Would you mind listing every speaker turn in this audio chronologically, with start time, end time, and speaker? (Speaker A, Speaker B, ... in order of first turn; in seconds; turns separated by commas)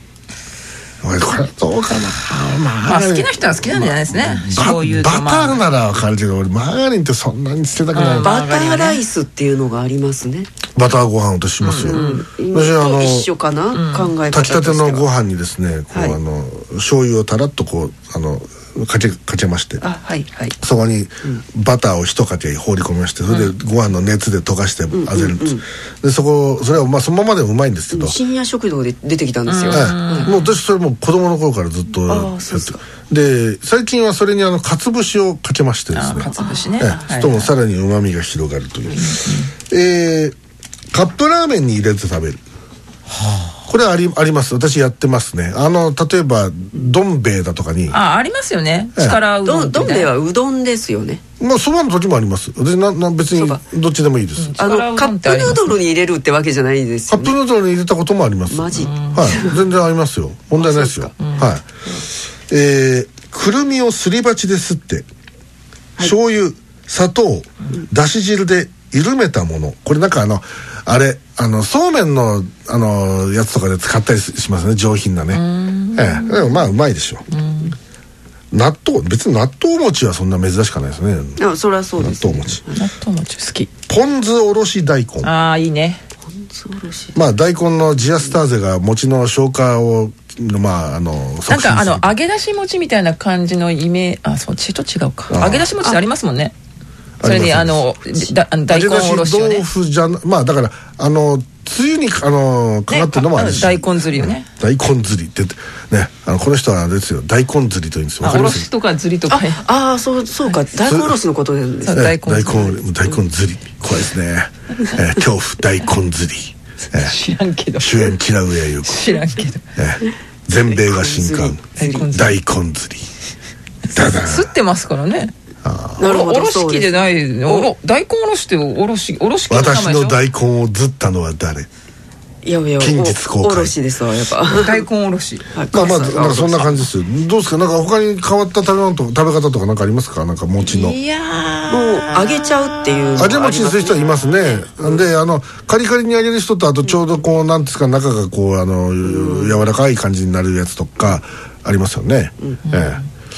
Speaker A: 1.0-8.3, Speaker B: 2.8-5.6, Speaker B: 7.9-9.0, Speaker C: 8.2-10.5, Speaker A: 10.7-13.3, Speaker B: 11.6-12.2, Speaker C: 11.8-15.1, Speaker B: 13.7-14.1, Speaker A: 14.3-19.8, Speaker C: 15.9-16.2, Speaker C: 19.8-20.6, Speaker A: 20.6-28.1, Speaker C: 24.9-25.6, Speaker C: 27.9-30.3, Speaker B: 29.5-30.5, Speaker A: 29.7-36.3, Speaker C: 32.0-32.8, Speaker B: 35.9-37.5, Speaker C: 36.3-37.0, Speaker A: 36.8-40.3, Speaker B: 39.0-39.5, Speaker A: 40.9-42.4, Speaker B: 43.1-43.6, Speaker A: 43.7-48.0, Speaker B: 47.9-50.1, Speaker C: 49.4-51.2, Speaker A: 51.4-54.6, Speaker C: 53.3-53.6, Speaker B: 54.4-55.8, Speaker C: 54.6-57.4, Speaker A: 57.1-61.6, Speaker C: 58.5-59.6, Speaker B: 58.8-59.5, Speaker C: 60.6-61.2, Speaker B: 61.2-61.5, Speaker A: 62.5-65.0, Speaker A: 66.0-75.4, Speaker B: 75.3-76.7, Speaker A: 75.9-77.2, Speaker B: 77.3-77.8, Speaker A: 78.5-81.4, Speaker C: 81.4-82.8, Speaker A: 82.0-82.6, Speaker B: 82.7-83.7, Speaker A: 83.9-85.3, Speaker B: 85.2-86.0, Speaker C: 86.3-87.2, Speaker A: 87.1-92.1, Speaker B: 91.5-96.5, Speaker A: 95.3-95.7, Speaker A: 97.2-97.9, Speaker B: 97.2-99.6, Speaker A: 98.7-108.7, Speaker B: 102.9-104.5, Speaker B: 108.2-109.6, Speaker C: 109.3-112.7, Speaker A: 110.9-111.1, Speaker B: 111.9-112.7, Speaker A: 111.9-117.1, Speaker B: 116.9-118.2, Speaker A: 117.8-119.0, Speaker B: 118.8-119.6, Speaker A: 119.8-123.1, Speaker C: 120.7-122.1, Speaker B: 121.8-122.3, Speaker A: 123.9-124.5, Speaker B: 123.9-125.3, Speaker A: 125.6-126.0, Speaker C: 126.0-127.7, Speaker B: 126.0-130.2, Speaker A: 129.5-131.7, Speaker C: 132.4-134.8, Speaker A: 132.8-133.7, Speaker B: 134.5-135.5, Speaker C: 135.5-136.8, Speaker A: 135.7-141.0, Speaker B: 140.6-143.3, Speaker C: 141.7-145.1, Speaker A: 143.2-153.0, Speaker C: 149.0-149.7, Speaker B: 152.6-153.1